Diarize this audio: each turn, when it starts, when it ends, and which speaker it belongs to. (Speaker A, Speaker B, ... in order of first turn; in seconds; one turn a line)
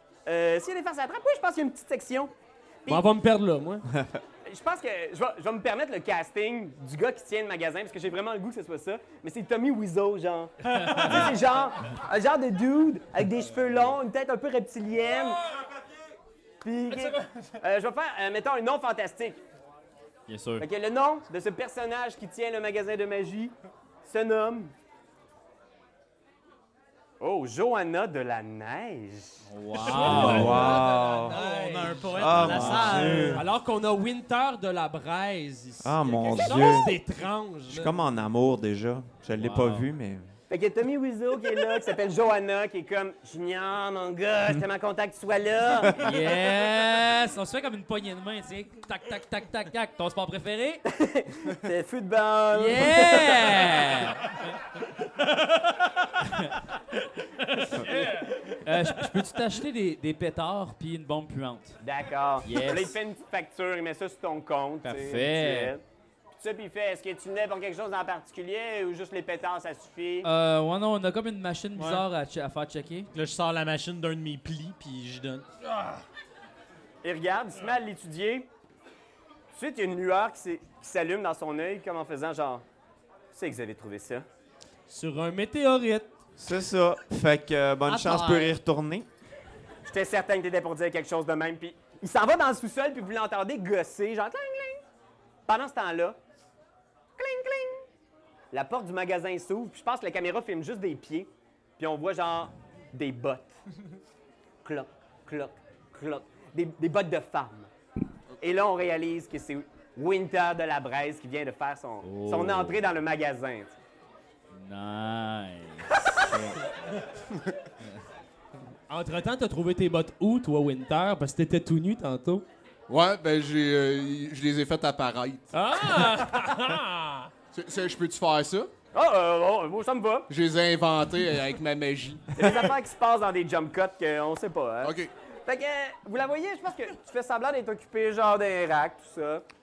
Speaker A: 0.2-2.3
Speaker B: 2.9-3.8
Speaker C: 3.9-4.2
Speaker A: 4.4-15.4
Speaker A: 16.6-19.4
Speaker D: 20.3-20.6
Speaker A: 20.6-24.7
Speaker A: 27.2-29.4
Speaker D: 29.5-30.7
Speaker B: 29.7-38.0
Speaker E: 29.9-33.5
Speaker C: 29.9-31.4
Speaker C: 32.1-33.5
Speaker D: 32.4-33.0
Speaker C: 35.8-37.0
Speaker C: 37.7-40.3
Speaker D: 39.4-39.9
Speaker A: 40.5-46.0
Speaker D: 46.0-50.8
Speaker A: 50.9-53.6
Speaker D: 52.5-54.2
Speaker B: 57.8-58.3
Speaker D: 58.6-61.8
Speaker A: 61.8-70.3
Speaker D: 62.4-63.0
Speaker D: 64.8-65.7
Speaker D: 70.2-73.1
Speaker E: 71.7-72.0
Speaker E: 73.1-75.5
Speaker A: 77.0-78.5
Speaker A: 79.5-82.6
Speaker A: 83.3-84.2
Speaker B: 84.9-86.1
Speaker C: 86.4-89.1
Speaker E: 87.9-88.5
Speaker A: 89.8-94.8
Speaker A: 95.5-96.2
Speaker A: 97.2-97.8
Speaker A: 98.5-103.5
Speaker A: 104.6-107.7
Speaker A: 108.4-113.8
Speaker D: 112.0-112.8
Speaker D: 114.5-116.6
Speaker B: 118.9-122.4
Speaker F: 122.9-125.5
Speaker B: 125.5-127.3
Speaker F: 127.5-128.7
Speaker A: 128.9-130.3
Speaker F: 130.3-132.7
Speaker A: 132.3-139.4
Speaker F: 134.8-135.1